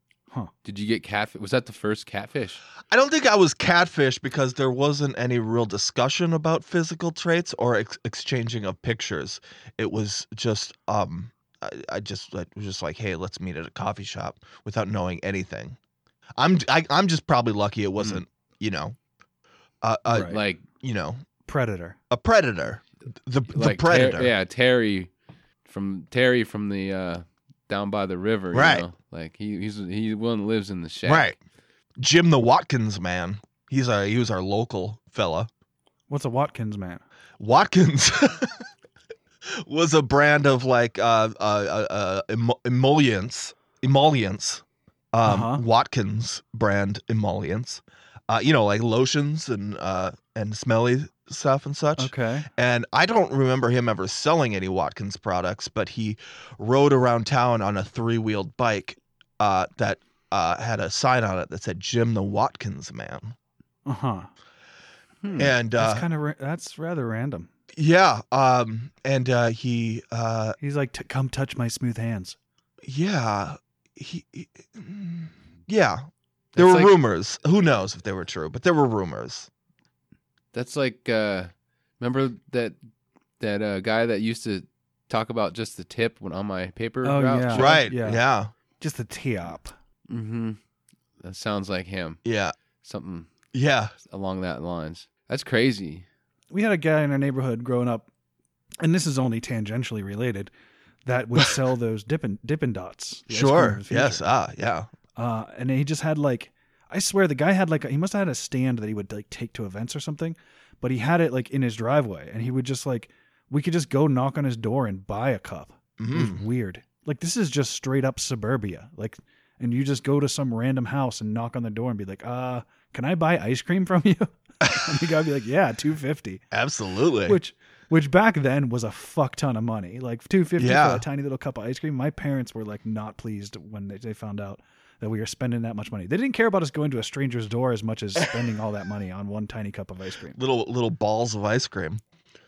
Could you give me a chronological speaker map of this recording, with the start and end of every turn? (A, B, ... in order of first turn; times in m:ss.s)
0:00.6-0:02.6 A
0:02.9-0:15.8 B
0:16.4-0:19.0 B
0:19.8-0:21.2 B
0:20.1-0:20.4 C
0:20.2-0:20.6 A
0:21.5-0:22.0 C
0:22.1-0:24.3 B
0:23.5-0:25.1 A
0:25.6-0:31.4 A
0:28.5-0:28.8 B
0:31.0-0:31.4 B
0:32.0-0:35.5 B
0:36.1-0:37.0 C
0:37.4-0:38.7 B
0:39.5-1:03.4 B
0:45.2-0:45.6 C
0:52.0-0:52.5 C
1:03.9-1:04.3 C
1:05.2-1:05.5 A
1:05.4-1:06.0 B
1:05.8-1:07.5 C
1:07.8-1:10.6 B
1:10.6-1:12.4 C
1:12.8-1:16.0 B
1:16.6-1:17.0 A
1:16.6-1:19.5 B
1:20.5-1:22.8 A
1:23.4-1:27.8 A
1:27.0-1:28.2 C
1:27.5-1:28.5 B
1:28.8-1:29.8 C
1:30.1-1:30.6 A
1:31.2-1:32.2 A
1:32.2-1:32.6 B
1:32.8-1:33.3 A
1:33.5-1:33.9 B
1:34.1-1:36.1 A
1:36.5-1:38.1 C
1:38.8-1:40.5 C
1:41.1-1:44.2 C
1:43.3-1:44.9 B
1:45.2-2:06.4 C
1:56.0-1:56.4 B
2:04.6-2:04.9 B
2:06.5-2:07.4 B
2:07.3-2:20.4 C
2:10.6-2:11.0 B
2:20.4-2:22.0 B